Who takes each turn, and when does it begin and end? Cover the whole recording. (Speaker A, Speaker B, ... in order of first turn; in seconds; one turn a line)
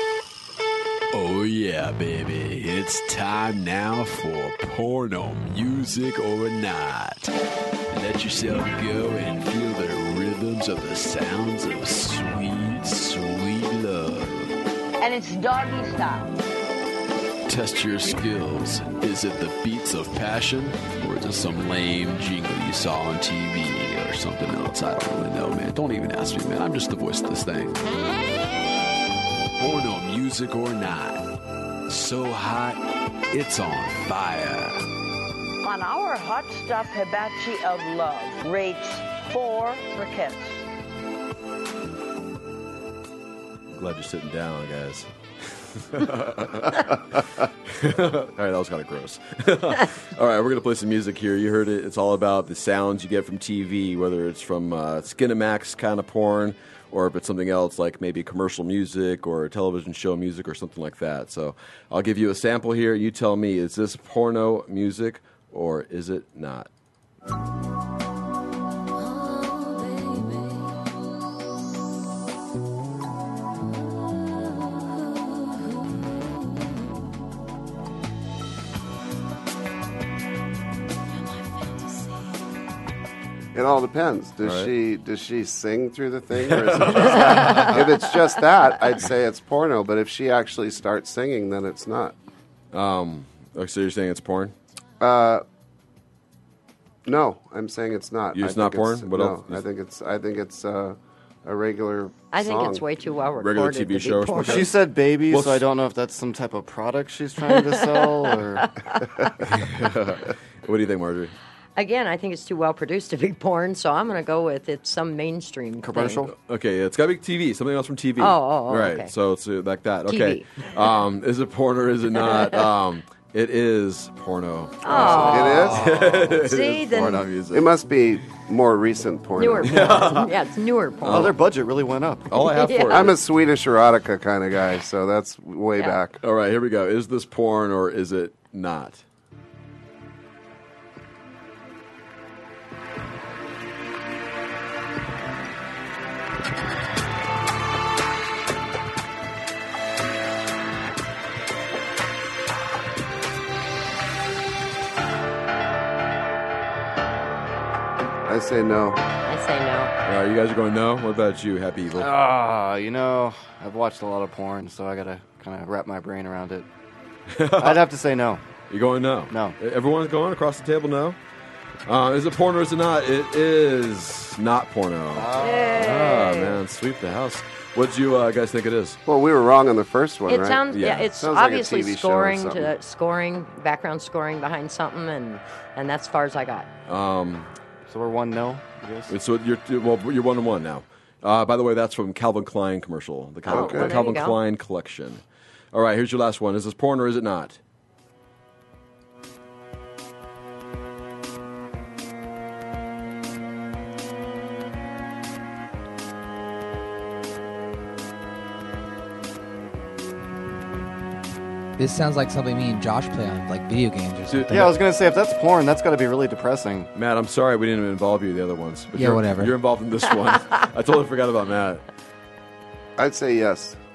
Speaker A: 1.1-7.3
Speaker A: 7.9-14.6
Speaker B: 15.0-16.4
Speaker A: 17.5-27.8
Speaker A: 29.6-31.3
Speaker A: 31.9-34.8
Speaker B: 35.6-40.6
Speaker C: 43.7-66.7
Speaker D: 83.5-92.2
Speaker C: 84.4-84.7
Speaker C: 86.3-87.9
Speaker E: 87.1-87.8
Speaker C: 92.7-94.5
Speaker D: 95.0-95.4
Speaker D: 97.1-102.8
Speaker C: 98.3-99.7
Speaker E: 102.3-104.7
Speaker C: 103.4-104.7
Speaker F: 104.4-108.7
Speaker C: 105.3-105.6
Speaker C: 109.4-111.3
Speaker E: 111.8-116.3
Speaker F: 115.8-116.3
Speaker C: 116.4-127.7
Speaker E: 118.2-119.1
Speaker E: 120.1-120.7
Speaker E: 122.3-122.6
Speaker E: 124.8-127.3
Speaker F: 125.0-126.4
Speaker D: 125.3-125.8
Speaker D: 127.5-129.8
Speaker E: 129.4-131.4
Speaker F: 129.6-130.1
Speaker C: 129.9-130.3
Speaker F: 131.0-132.3
Speaker C: 131.0-131.4
Speaker C: 132.3-133.2
Speaker E: 132.4-133.1
Speaker D: 132.9-136.2
Speaker E: 135.8-136.0
Speaker C: 136.2-139.0
Speaker D: 158.3-159.0
Speaker E: 159.2-159.9
Speaker C: 160.1-162.1
Speaker F: 161.9-166.7
Speaker C: 167.3-167.8
Speaker F: 167.6-168.4
Speaker C: 168.7-171.2
Speaker F: 169.3-169.6
Speaker C: 171.9-179.0
Speaker F: 175.1-176.0
Speaker E: 175.4-176.6
Speaker D: 179.1-182.7
Speaker E: 180.3-186.7
Speaker C: 180.7-181.1
Speaker C: 186.9-187.5
Speaker F: 187.9-189.2
Speaker C: 189.1-197.6
Speaker E: 193.5-194.4
Speaker D: 193.5-193.9
Speaker G: 211.8-214.7
Speaker C: 214.3-214.7
Speaker F: 214.5-216.9
Speaker C: 216.9-221.8
Speaker G: 218.9-219.5
Speaker D: 223.0-223.8